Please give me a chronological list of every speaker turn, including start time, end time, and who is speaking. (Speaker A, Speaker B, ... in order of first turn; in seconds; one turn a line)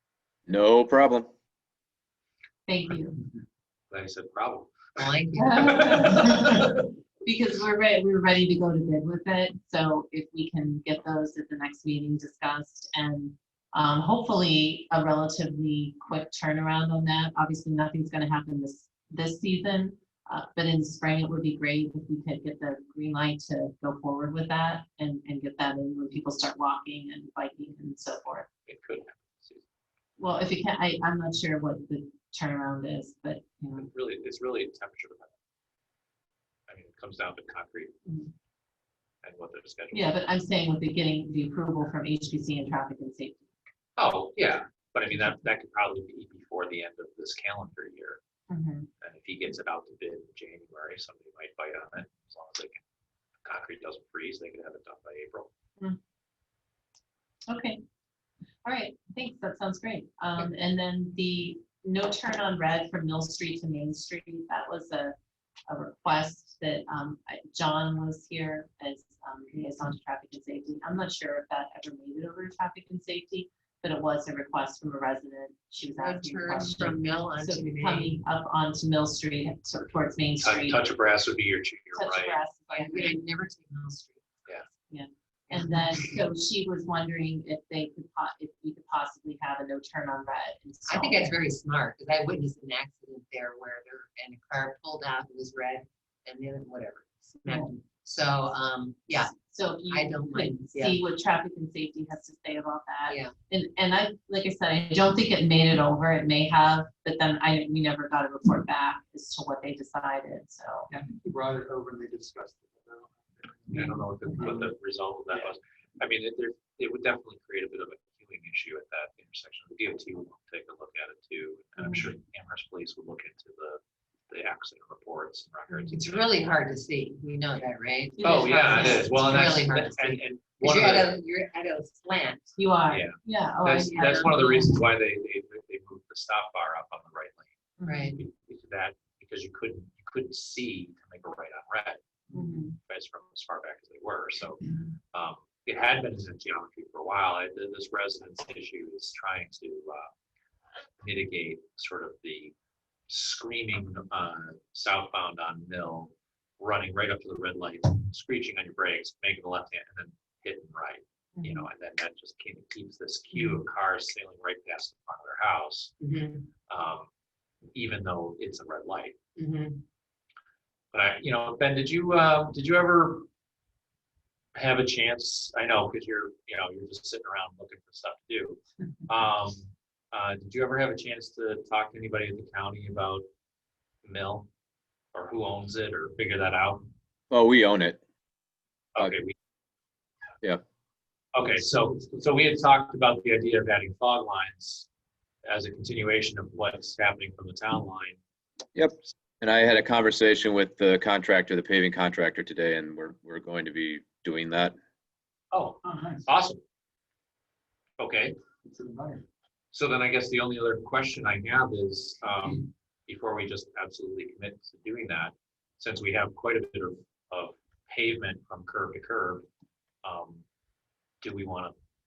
Speaker A: 0.5-1.3
Speaker B: 2.7-3.2
Speaker C: 3.9-6.6
Speaker D: 5.0-5.9
Speaker B: 5.3-28.5
Speaker C: 28.7-29.6
Speaker B: 30.2-33.9
Speaker C: 33.7-35.3
Speaker C: 36.7-38.0
Speaker B: 38.0-38.3
Speaker C: 39.2-40.1
Speaker B: 39.9-43.5
Speaker C: 44.0-48.2
Speaker B: 48.5-48.9
Speaker C: 49.0-52.8
Speaker C: 53.4-55.5
Speaker B: 57.5-57.8
Speaker B: 58.6-65.1
Speaker B: 65.7-80.8
Speaker D: 76.0-78.2
Speaker C: 80.4-82.4
Speaker B: 81.9-83.2
Speaker D: 82.7-84.7
Speaker B: 84.9-91.3
Speaker D: 85.5-86.1
Speaker D: 90.9-99.3
Speaker B: 99.3-110.9
Speaker D: 99.9-101.0
Speaker D: 103.0-103.3
Speaker E: 110.9-114.7
Speaker C: 113.7-126.3
Speaker B: 121.8-122.1
Speaker D: 125.9-132.6
Speaker B: 128.2-129.2
Speaker C: 128.2-131.1
Speaker B: 132.6-134.8
Speaker C: 132.9-137.5
Speaker D: 133.9-134.3
Speaker B: 137.8-138.2
Speaker D: 137.8-138.2
Speaker C: 138.2-142.0
Speaker B: 142.3-142.8
Speaker C: 142.8-144.6
Speaker C: 145.1-150.1
Speaker C: 151.0-152.5
Speaker C: 153.1-165.9
Speaker D: 161.4-161.7
Speaker D: 166.0-166.5
Speaker C: 166.7-167.1
Speaker C: 167.7-169.2
Speaker D: 169.4-169.8
Speaker C: 170.9-173.3
Speaker C: 174.5-183.2
Speaker C: 184.0-184.5
Speaker C: 185.1-186.9
Speaker A: 187.3-188.0
Speaker C: 188.9-189.3
Speaker C: 191.3-194.9
Speaker C: 195.4-198.2
Speaker A: 198.7-204.8
Speaker C: 205.5-206.6
Speaker E: 205.8-206.3
Speaker C: 208.0-208.3
Speaker E: 208.6-209.2
Speaker C: 209.7-219.4
Speaker C: 220.0-220.4
Speaker C: 221.2-221.7